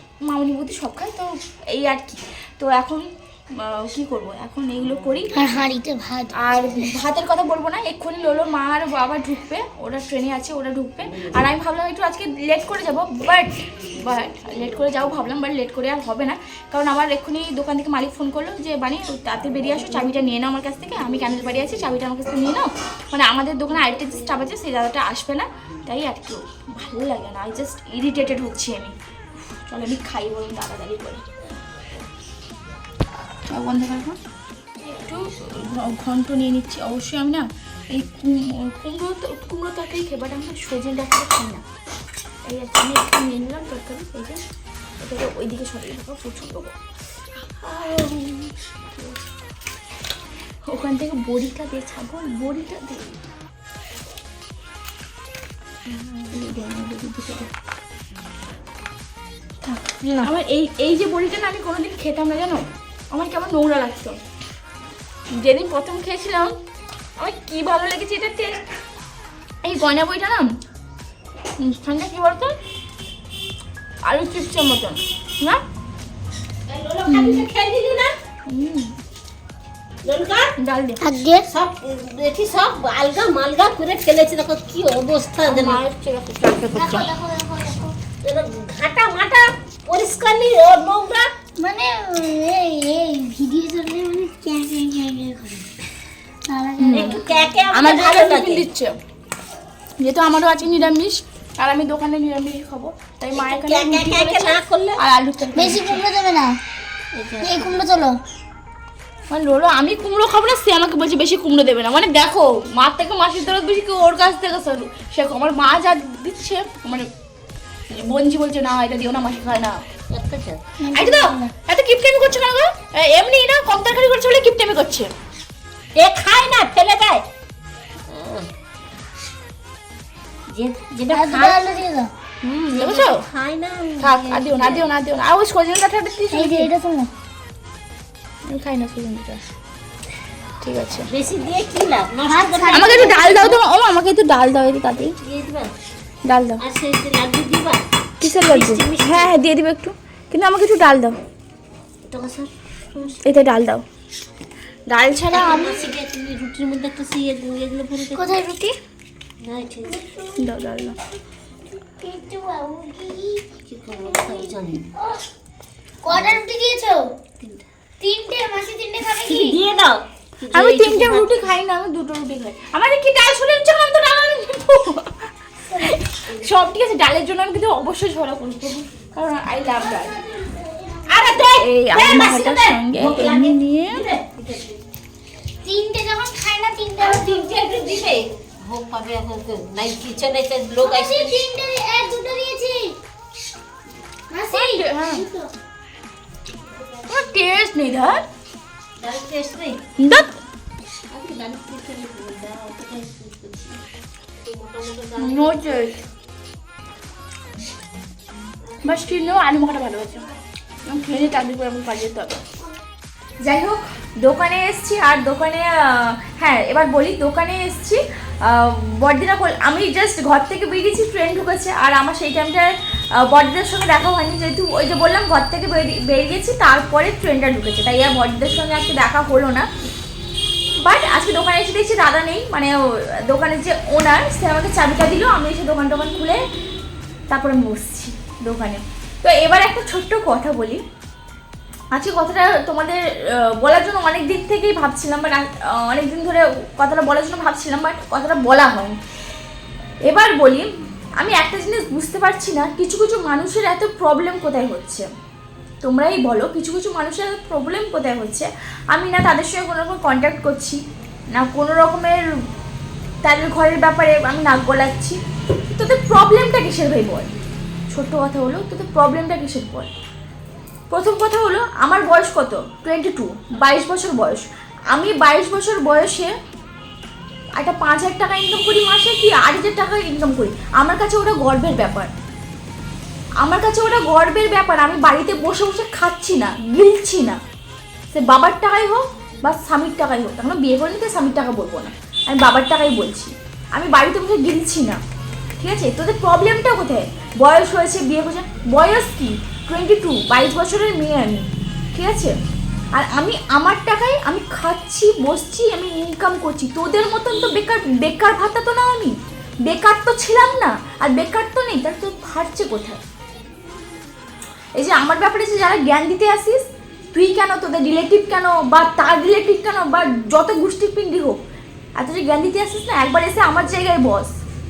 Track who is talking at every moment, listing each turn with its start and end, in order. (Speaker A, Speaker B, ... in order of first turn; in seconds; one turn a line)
Speaker A: 0.2-5.4
Speaker B: 5.3-6.3
Speaker A: 6.3-31.2
Speaker A: 33.5-34.2
Speaker A: 34.9-41.6
Speaker A: 42.4-44.4
Speaker A: 45.0-46.8
Speaker A: 47.4-49.1
Speaker A: 50.7-53.2
Speaker A: 56.3-57.5
Speaker A: 60.2-64.2
Speaker A: 65.3-66.5
Speaker A: 67.2-68.6
Speaker A: 69.6-70.6
Speaker A: 71.6-72.6
Speaker A: 74.0-75.6
Speaker C: 76.7-78.2
Speaker A: 77.1-77.4
Speaker A: 78.5-78.9
Speaker C: 80.0-80.5
Speaker A: 80.6-81.0
Speaker B: 81.0-81.5
Speaker C: 81.5-87.1
Speaker A: 85.5-87.0
Speaker B: 86.8-87.9
Speaker C: 88.2-91.3
Speaker B: 91.6-94.8
Speaker C: 94.2-95.6
Speaker B: 96.5-97.3
Speaker A: 96.8-99.0
Speaker C: 96.9-98.7
Speaker A: 100.0-106.0
Speaker C: 103.3-105.0
Speaker B: 105.6-106.6
Speaker C: 107.1-107.8
Speaker B: 107.4-108.2
Speaker A: 109.3-117.1
Speaker A: 117.9-119.8
Speaker C: 120.1-120.6
Speaker B: 120.8-121.5
Speaker A: 120.9-125.1
Speaker C: 126.0-127.2
Speaker C: 128.1-128.5
Speaker C: 130.5-131.8
Speaker B: 131.1-132.1
Speaker A: 132.4-133.2
Speaker C: 132.7-134.9
Speaker A: 134.0-136.7
Speaker B: 136.3-137.1
Speaker A: 138.5-139.4
Speaker A: 140.6-141.1
Speaker C: 141.1-143.6
Speaker B: 142.2-143.5
Speaker A: 142.7-145.2
Speaker C: 145.2-145.7
Speaker A: 146.2-146.6
Speaker C: 146.6-147.8
Speaker A: 148.2-151.2
Speaker C: 148.3-149.3
Speaker C: 152.1-153.2
Speaker A: 153.2-153.8
Speaker A: 154.9-155.8
Speaker C: 155.3-158.4
Speaker B: 158.2-158.8
Speaker C: 159.4-160.1
Speaker B: 160.0-160.3
Speaker A: 160.3-161.0
Speaker B: 161.8-163.5
Speaker C: 163.7-164.9
Speaker B: 164.1-165.2
Speaker B: 166.0-167.0
Speaker C: 166.1-166.4
Speaker B: 168.0-169.6
Speaker C: 169.1-171.4
Speaker A: 170.5-180.2
Speaker B: 175.7-176.0
Speaker C: 181.1-184.8
Speaker A: 181.6-184.1
Speaker B: 185.6-187.7
Speaker C: 187.0-191.4
Speaker B: 190.8-193.0
Speaker B: 194.3-195.1
Speaker A: 194.5-195.2
Speaker C: 195.1-195.5
Speaker A: 197.1-198.2
Speaker C: 199.0-199.8
Speaker A: 200.0-200.3
Speaker C: 201.1-203.8
Speaker C: 204.4-205.9
Speaker A: 205.2-206.0
Speaker A: 208.8-210.2
Speaker C: 208.9-209.4
Speaker A: 210.9-212.4
Speaker A: 213.4-229.7
Speaker A: 230.8-236.4
Speaker A: 237.3-240.8
Speaker A: 241.9-249.0
Speaker A: 250.1-255.1
Speaker A: 255.8-260.8
Speaker A: 261.3-262.3
Speaker A: 263.2-267.3
Speaker A: 267.9-269.9
Speaker A: 270.9-276.3
Speaker A: 277.6-282.1
Speaker A: 283.4-287.4
Speaker A: 288.1-295.0
Speaker A: 295.6-302.4
Speaker A: 302.9-313.0
Speaker A: 314.8-321.4
Speaker A: 322.0-324.4